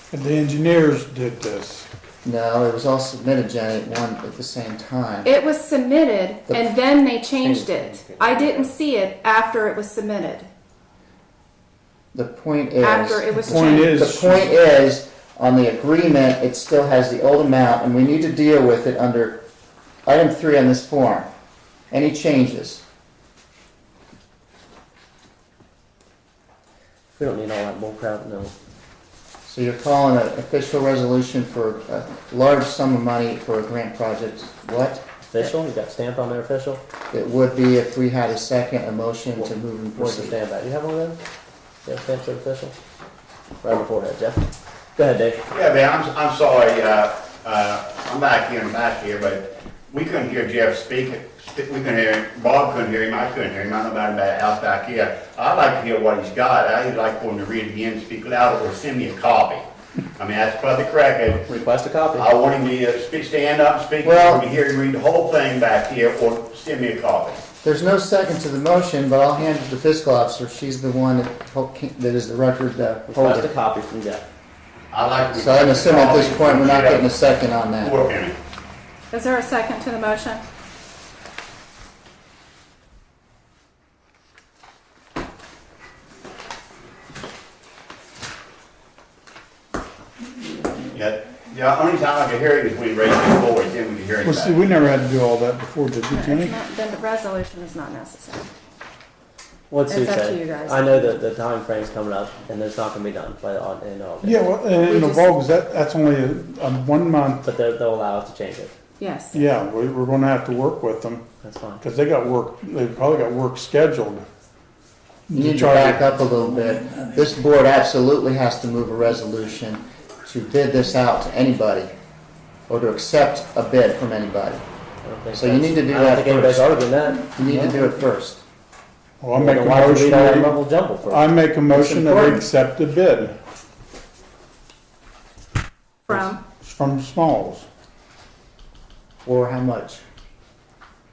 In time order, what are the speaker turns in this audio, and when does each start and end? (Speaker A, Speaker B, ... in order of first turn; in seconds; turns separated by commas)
Speaker A: 0.1-1.9, Speaker B: 2.2-5.3, Speaker C: 5.2-10.5, Speaker D: 7.4-8.7, Speaker B: 12.1-19.4, Speaker C: 12.8-14.0, Speaker A: 13.4-14.4, Speaker B: 20.1-21.3, Speaker B: 21.9-22.8, Speaker D: 27.1-28.5, Speaker B: 29.5-35.5, Speaker D: 35.3-36.8, Speaker B: 37.1-40.4, Speaker D: 39.4-41.2, Speaker D: 41.8-42.7, Speaker D: 43.6-45.4, Speaker E: 45.5-59.6, Speaker E: 60.2-61.5, Speaker D: 61.5-62.3, Speaker E: 62.2-67.4, Speaker B: 64.0-64.5, Speaker B: 67.6-73.5, Speaker D: 73.1-74.2, Speaker E: 74.9-77.1, Speaker B: 75.3-78.1, Speaker E: 77.8-78.3, Speaker C: 79.1-80.4, Speaker E: 90.9-94.6, Speaker A: 94.2-96.5, Speaker C: 96.1-98.5, Speaker D: 99.7-104.7, Speaker C: 99.9-101.1, Speaker A: 104.2-107.4, Speaker C: 104.7-105.3, Speaker D: 107.4-108.7, Speaker C: 109.0-109.4, Speaker A: 109.3-111.2, Speaker D: 111.4-111.8, Speaker A: 111.8-114.3, Speaker A: 115.3-116.1, Speaker B: 115.3-121.9, Speaker B: 122.7-124.6, Speaker D: 125.0-127.8, Speaker B: 125.3-126.7, Speaker B: 127.3-128.4, Speaker A: 129.2-133.4, Speaker D: 129.3-131.3, Speaker B: 131.7-132.4, Speaker C: 136.1-136.4, Speaker A: 136.1-137.7, Speaker B: 139.2-140.0